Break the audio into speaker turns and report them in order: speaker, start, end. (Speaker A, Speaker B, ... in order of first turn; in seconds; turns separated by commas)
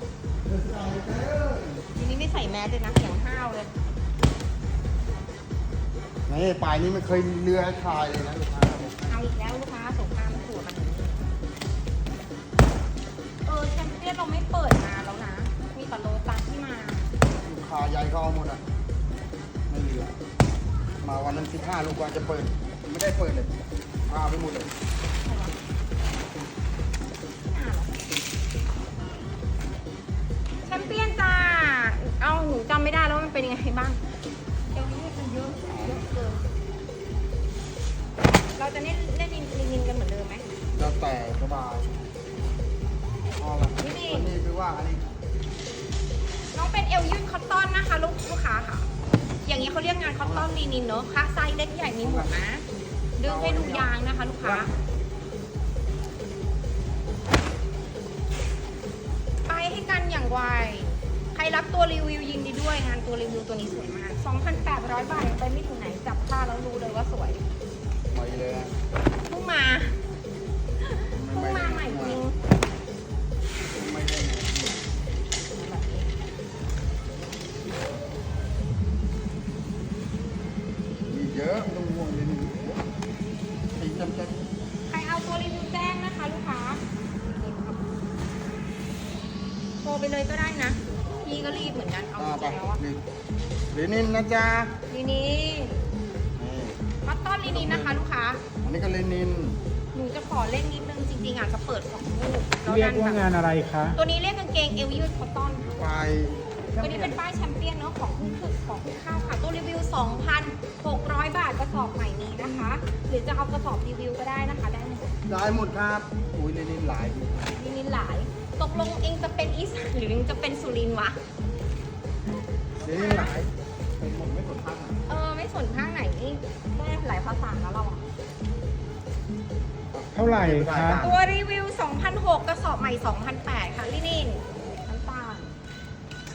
Speaker A: 0.5-1.8, Speaker B: 1.9-3.7, Speaker A: 6.2-9.2, Speaker B: 9.1-11.3, Speaker B: 13.4-17.1, Speaker A: 17.4-18.6, Speaker A: 19.7-20.2, Speaker A: 21.0-23.5, Speaker A: 24.1-24.7, Speaker B: 25.2-25.6, Speaker B: 27.4-28.0, Speaker B: 30.6-34.0, Speaker B: 34.7-36.5, Speaker A: 35.6-36.1, Speaker B: 38.5-40.5, Speaker A: 40.7-42.0, Speaker A: 43.3-45.1, Speaker B: 43.8-44.3, Speaker B: 46.5-48.9, Speaker B: 49.4-52.6, Speaker A: 52.0-52.3, Speaker B: 53.2-54.7, Speaker A: 53.2-54.7, Speaker B: 59.5-67.4, Speaker A: 68.1-68.8, Speaker B: 69.2-70.0, Speaker B: 70.8-72.4, Speaker A: 71.1-72.2, Speaker A: 73.7-74.8, Speaker B: 75.5-76.1, Speaker A: 81.0-82.8, Speaker A: 83.7-84.4, Speaker B: 84.9-87.8, Speaker B: 89.8-92.8, Speaker A: 92.2-93.0, Speaker A: 93.7-94.8, Speaker B: 94.9-95.9, Speaker A: 96.3-96.8, Speaker B: 97.0-98.5, Speaker A: 97.4-98.0, Speaker A: 98.6-99.6, Speaker B: 99.9-103.3, Speaker C: 102.6-104.0, Speaker B: 103.9-105.8, Speaker A: 105.8-107.2, Speaker B: 106.8-115.1, Speaker A: 115.2-117.6, Speaker B: 117.5-121.2, Speaker B: 122.8-123.4, Speaker A: 122.8-125.0, Speaker B: 125.1-128.0, Speaker A: 129.9-131.2, Speaker C: 130.1-131.1, Speaker B: 130.9-135.5